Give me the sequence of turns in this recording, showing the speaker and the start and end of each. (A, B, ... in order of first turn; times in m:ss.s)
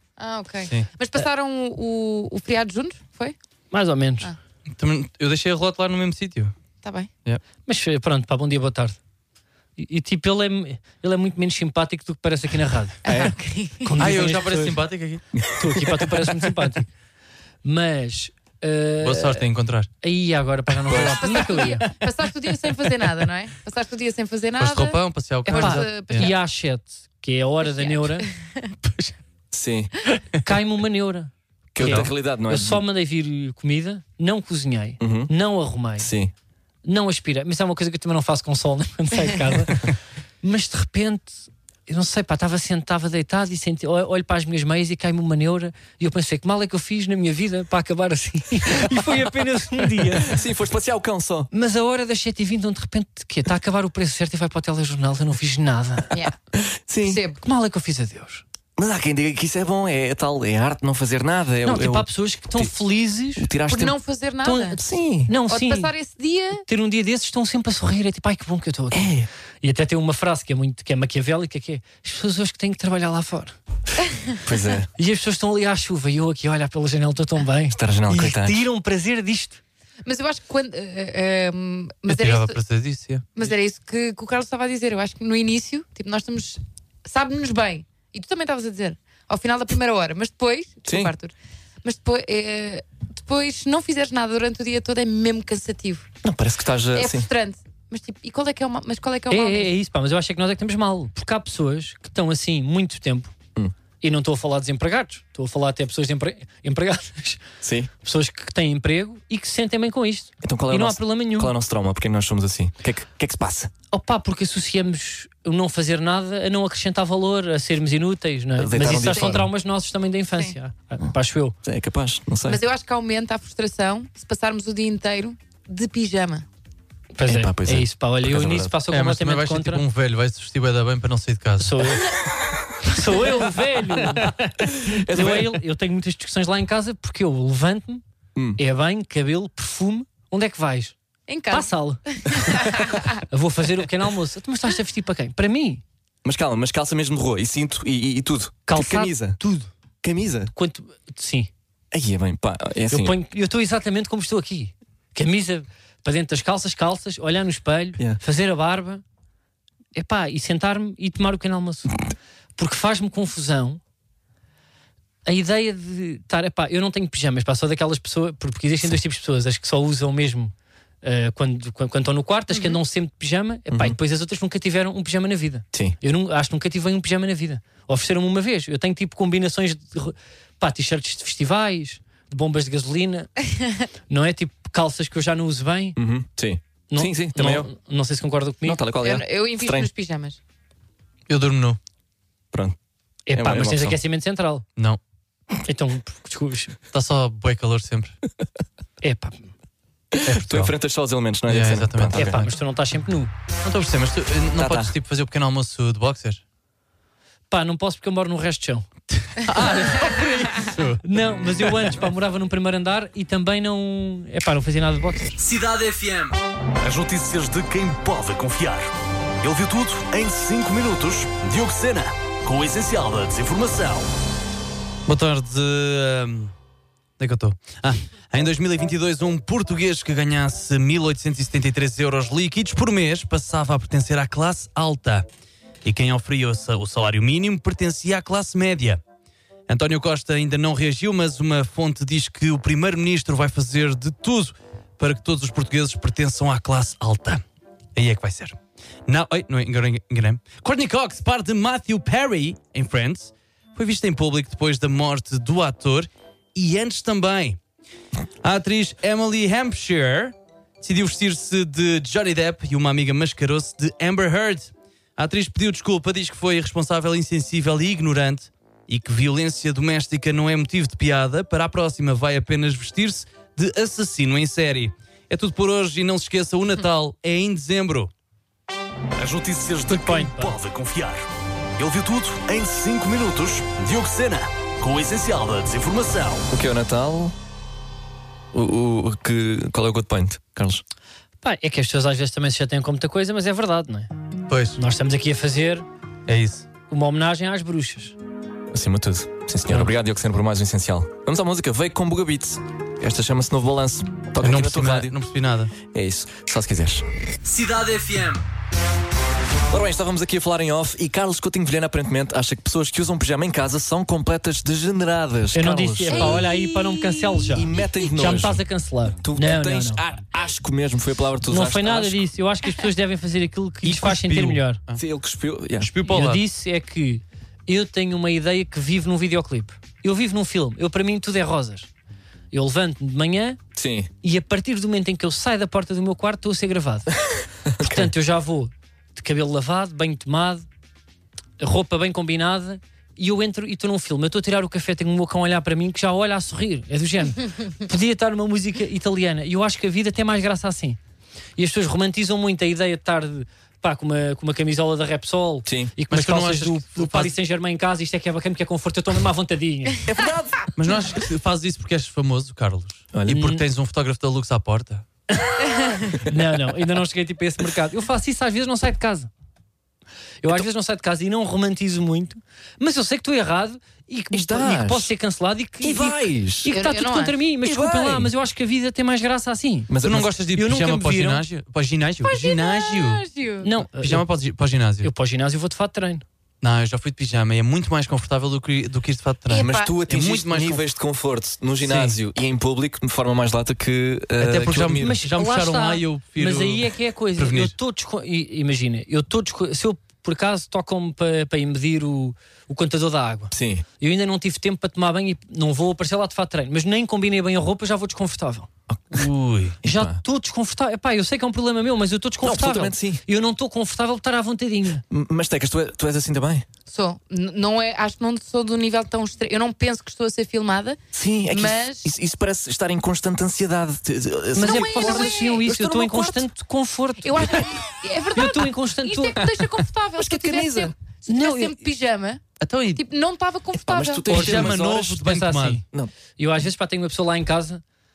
0:00.2-0:03.4 A
0:03.7-0:04.3 B
0:04.8-0:06.5 C
0:06.8-0:07.1 A
0:07.7-0:09.0 B
0:09.8-0:13.0 B
0:13.0-0:13.9 A
0:13.1-0:13.4 D
0:13.8-0:14.8 B
0:14.0-0:15.2 C
0:15.3-0:16.3 D
0:15.4-0:16.9 B
0:17.6-0:19.4 B
0:19.0-0:19.9 C
0:20.0-0:21.9 B
0:20.9-0:21.2 D
0:21.0-0:26.4 A
0:24.6-0:26.3 C
0:25.5-0:28.3 B
0:27.6-0:28.7 A
0:29.5-0:29.9 D
0:30.4-0:36.1 B
0:31.7-0:32.8 D
0:31.8-0:32.1 C
0:35.0-0:35.3 D
0:36.0-0:36.3 D
0:36.8-0:41.4 B
0:41.9-0:50.4 B
0:50.2-0:51.5 D
0:51.5-0:56.1 B
0:56.5-0:57.2 D
0:57.0-0:57.4 A
0:57.4-0:58.4 B
0:58.8-1:02.7 D
1:01.6-1:03.5 B
1:03.4-1:04.0 D
1:03.7-1:04.8 A
1:04.4-1:05.9 B
1:04.8-1:05.3 D
1:05.5-1:06.6 A
1:06.7-1:09.1 B
1:08.9-1:09.3 D
1:09.6-1:13.6 B
1:14.4-1:14.9 D
1:15.0-1:19.6 B
1:17.7-1:18.6 D
1:20.0-1:22.6 A
1:22.1-1:23.3 C
1:23.4-1:36.1 A
1:30.9-1:31.1 D
1:36.2-1:37.3 D
1:36.9-1:39.7 A
1:39.3-1:43.3 B
1:44.0-1:47.4 B
1:47.6-1:47.9 D
1:48.0-1:51.6 B
1:50.4-1:53.7 D
1:53.9-2:01.6 B
1:58.6-1:59.5 D
1:58.9-1:59.3 A
2:01.6-2:02.6 D
2:02.5-2:06.5 A
2:07.1-2:09.8 B
2:07.2-2:08.7 D
2:08.9-2:11.8 C
2:11.6-2:12.2 B
2:12.8-2:18.0 B
2:14.6-2:15.6 D
2:18.6-2:21.0 B
2:21.3-2:23.1 A
2:21.5-2:22.7 B
2:23.3-2:25.8 B
2:26.2-2:29.4 D
2:28.7-2:29.7 B
2:30.0-2:30.5 D
2:30.6-2:31.5 B
2:31.9-2:33.2 D
2:32.9-2:39.0 B
2:40.0-2:42.0 B
2:42.6-2:43.8 B
2:45.2-3:03.3 B
2:53.7-2:54.0 D
3:04.1-3:06.0 B
3:06.0-3:07.7 D
3:06.9-3:08.8 B
3:08.6-3:09.9 D
3:09.0-3:10.4 A
3:11.3-3:11.8 C
3:12.5-3:12.8 D
3:13.3-3:14.6 B
3:13.3-3:14.0 D
3:15.6-3:16.8 B
3:16.9-3:18.2 C
3:19.0-3:19.5 B
3:20.1-3:22.4 D
3:20.2-3:20.7 C
3:21.5-3:22.4 C
3:22.1-3:23.3 B
3:23.6-3:26.4 C
3:24.6-3:25.0 D
3:27.5-3:28.9 B
3:29.3-3:31.0 C
3:29.5-3:35.4 B
3:35.4-3:38.9 E
3:39.4-3:44.1 E
3:45.1-3:46.5 C
3:47.2-3:55.3 C
3:55.8-3:59.0 C
3:59.7-4:07.4 C
4:08.0-4:17.6 C
4:18.4-4:38.1 C
4:39.2-4:41.2 E
4:39.9-4:40.6 B
4:41.8-4:46.5 E
4:46.5-4:47.4 D
4:48.5-4:50.8 D
4:51.4-4:54.1 B
4:54.5-4:54.8 C
4:54.8-4:55.8 B
4:56.3-4:56.7 C
4:56.9-4:58.2 B
4:58.7-5:05.2 D
5:04.4-5:05.7 C
5:05.8-5:07.0 D
5:07.4-5:08.4 E
5:09.7-5:16.5 D
5:15.5-5:20.0 B
5:16.1-5:18.1 A
5:17.5-5:18.6 D
5:19.2-5:22.2 D
5:21.5-5:24.8 B
5:23.8-5:25.0 C
5:25.0-5:25.9 D
5:25.8-5:26.4 C
5:26.0-5:31.9 B
5:32.5-5:33.6 B
5:33.8-5:34.1 D
5:34.2-5:37.1 B
5:37.7-5:38.1 D
5:37.8-5:40.7 B
5:41.6-5:51.0 B
5:51.6-6:00.0 B
5:55.7-5:55.9 D
5:56.1-5:57.3 C
6:00.1-6:00.6 D
6:00.8-6:05.1 C
6:03.1-6:03.4 D
6:03.3-6:03.6 B
6:05.3-6:09.3 B
6:10.4-6:19.9 B
6:14.3-6:15.1 D
6:15.8-6:16.8 D
6:16.7-6:17.4 A
6:17.6-6:18.3 D
6:19.9-6:20.3 D
6:20.0-6:23.2 C
6:20.5-6:21.4 B
6:22.2-6:23.7 A
6:23.6-6:24.2 B
6:24.0-6:25.1 C
6:25.0-6:26.2 B
6:26.6-6:30.8 C
6:29.5-6:30.0 A
6:29.5-6:35.2 D
6:31.8-6:32.2 C
6:34.4-6:37.7 C
6:34.9-6:48.7 B
6:43.5-6:43.8 D
6:48.9-6:49.3 D
6:49.1-6:49.8 C
6:49.8-6:50.2 D
6:49.8-6:55.0 B
6:52.4-6:53.2 D
6:55.1-6:56.7 D
6:56.9-7:01.0 A
7:01.1-7:06.5 D
7:01.5-7:02.1 A
7:04.6-7:07.7 B
7:04.6-7:05.9 A
7:07.2-7:12.4 A
7:08.3-7:09.6 B
7:10.2-7:10.9 D
7:11.3-7:11.8 B
7:12.6-7:13.0 C
7:12.9-7:14.3 A
7:13.8-7:14.8 D
7:14.3-7:15.8 B
7:14.3-7:15.8 C
7:16.4-7:17.8 B